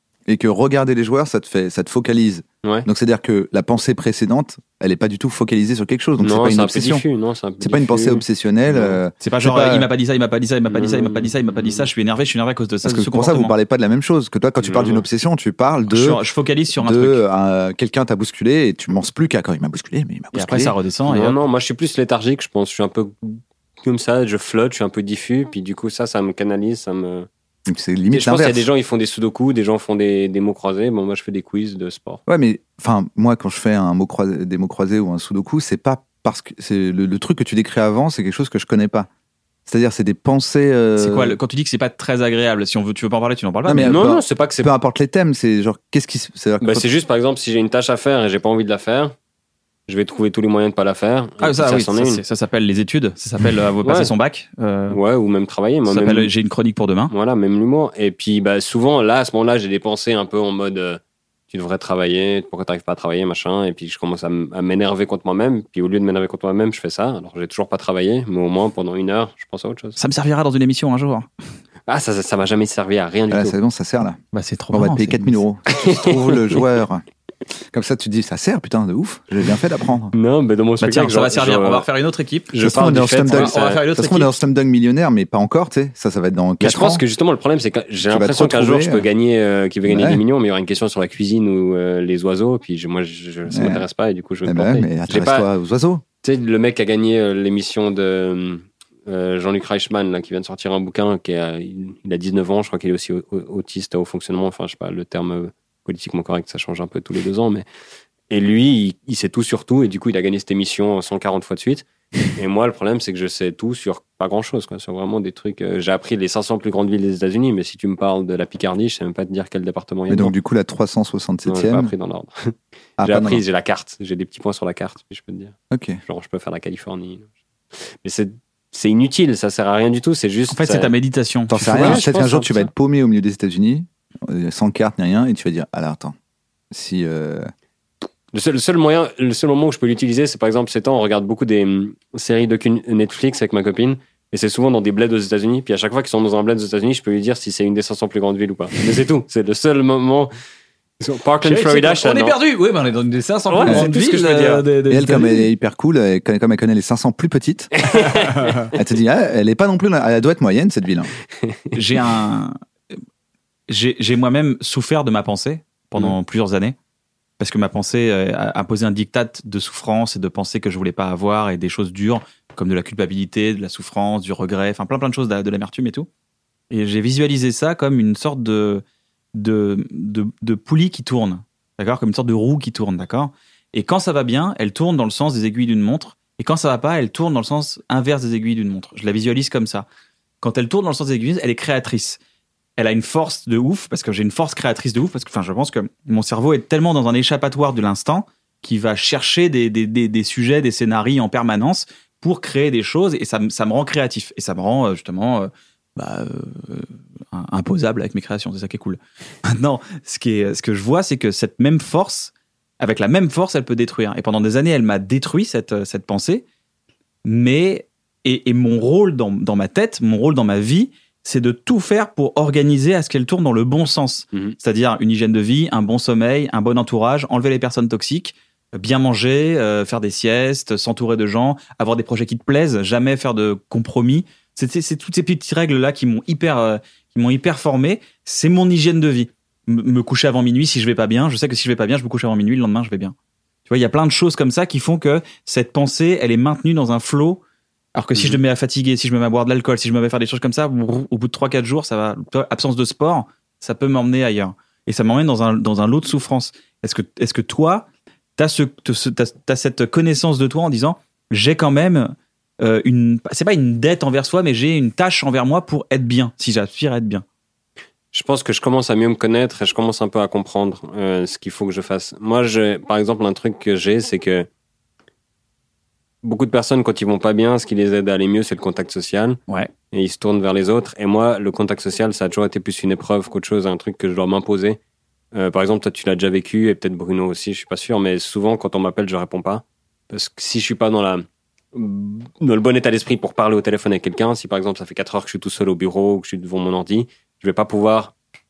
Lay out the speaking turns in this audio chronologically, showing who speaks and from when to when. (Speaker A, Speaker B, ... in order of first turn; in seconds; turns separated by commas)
Speaker A: 0.3-7.1, Speaker B: 6.2-9.0, Speaker A: 7.6-9.9, Speaker C: 9.2-13.5, Speaker B: 10.7-11.9, Speaker A: 12.8-16.2, Speaker B: 14.6-15.0, Speaker C: 15.9-17.2, Speaker A: 16.7-20.8, Speaker C: 20.3-21.4, Speaker B: 21.1-27.3, Speaker A: 27.7-28.7, Speaker B: 28.1-32.2, Speaker A: 32.3-39.1, Speaker A: 39.7-41.4, Speaker C: 41.0-44.0, Speaker A: 43.7-46.9, Speaker B: 43.9-44.7, Speaker B: 46.6-49.1, Speaker B: 49.9-52.2, Speaker C: 51.4-55.0, Speaker B: 53.8-54.1, Speaker B: 54.9-56.3, Speaker C: 55.9-57.1, Speaker B: 57.1-61.0, Speaker B: 61.5-70.0, Speaker C: 70.0-71.3, Speaker B: 71.9-73.5, Speaker A: 73.3-74.2, Speaker C: 74.3-75.4, Speaker A: 74.7-77.0, Speaker B: 75.8-76.6, Speaker A: 77.7-80.1, Speaker B: 80.1-81.9, Speaker C: 80.8-82.5, Speaker B: 82.5-83.8, Speaker A: 82.6-87.0, Speaker C: 83.2-84.3, Speaker B: 86.6-95.5, Speaker A: 88.0-89.1, Speaker A: 89.9-90.2, Speaker A: 93.5-93.8, Speaker A: 94.5-96.0, Speaker B: 96.2-107.7, Speaker B: 108.3-120.3, Speaker A: 120.1-121.9, Speaker B: 121.5-130.9, Speaker A: 123.0-123.4, Speaker A: 125.7-126.0, Speaker C: 130.5-132.0, Speaker A: 131.5-136.2, Speaker B: 131.7-132.7, Speaker A: 136.7-137.5, Speaker B: 138.3-150.3, Speaker B: 151.0-152.4, Speaker C: 151.4-155.4, Speaker B: 153.5-154.7, Speaker A: 154.9-157.7, Speaker B: 157.8-158.6, Speaker A: 158.7-161.1, Speaker B: 161.4-161.7, Speaker C: 161.7-162.6, Speaker C: 163.7-166.8, Speaker C: 167.4-176.1, Speaker C: 176.7-178.8, Speaker C: 179.3-189.9, Speaker C: 190.4-192.2, Speaker C: 192.8-216.4, Speaker C: 217.2-243.2, Speaker C: 243.7-247.4, Speaker C: 247.9-267.2, Speaker B: 268.1-274.5, Speaker B: 276.2-279.4, Speaker B: 279.9-284.8, Speaker B: 285.3-298.1